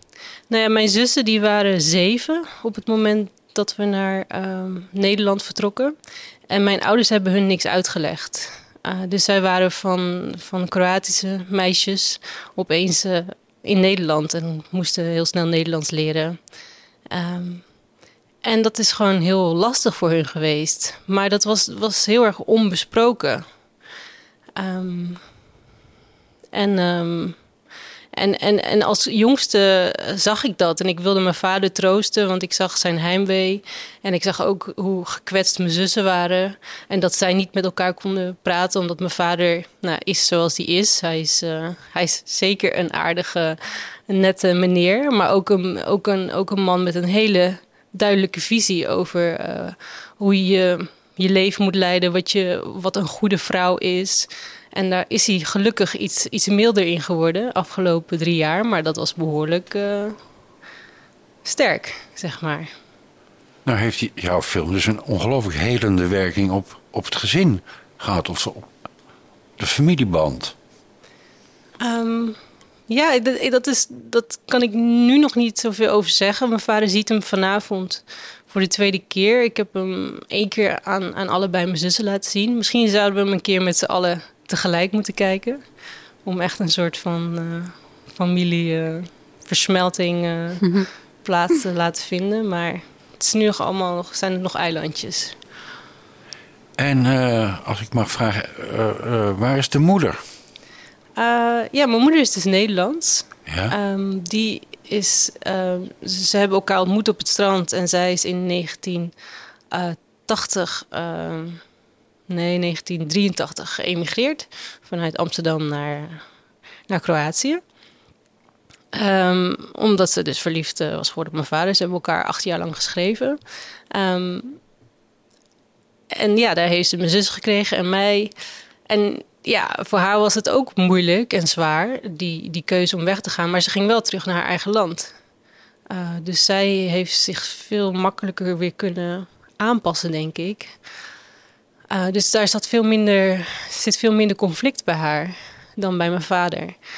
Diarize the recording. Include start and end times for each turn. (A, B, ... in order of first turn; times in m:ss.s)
0:00.5-0:05.9 A
0:06.5-0:16.4 A
0:17.1-0:17.6 A
0:18.4-0:23.5 A
0:24.6-0:25.2 A
0:26.5-0:27.4 A
0:28.1-1:00.2 A
1:01.4-1:02.7 A
1:03.7-1:08.7 B
1:09.6-1:10.5 B
1:11.8-1:25.6 A
1:26.2-1:35.4 A
1:36.8-1:40.2 B
1:41.2-1:49.1 A
1:43.5-1:43.7 B
1:49.7-1:51.6 A
1:52.3-1:56.2 A
1:56.9-1:57.6 A
1:58.9-2:03.4 A
2:03.9-2:04.6 A
2:06.1-2:08.3 A
2:08.9-2:15.1 A
2:15.9-2:20.8 A
2:21.9-2:26.8 A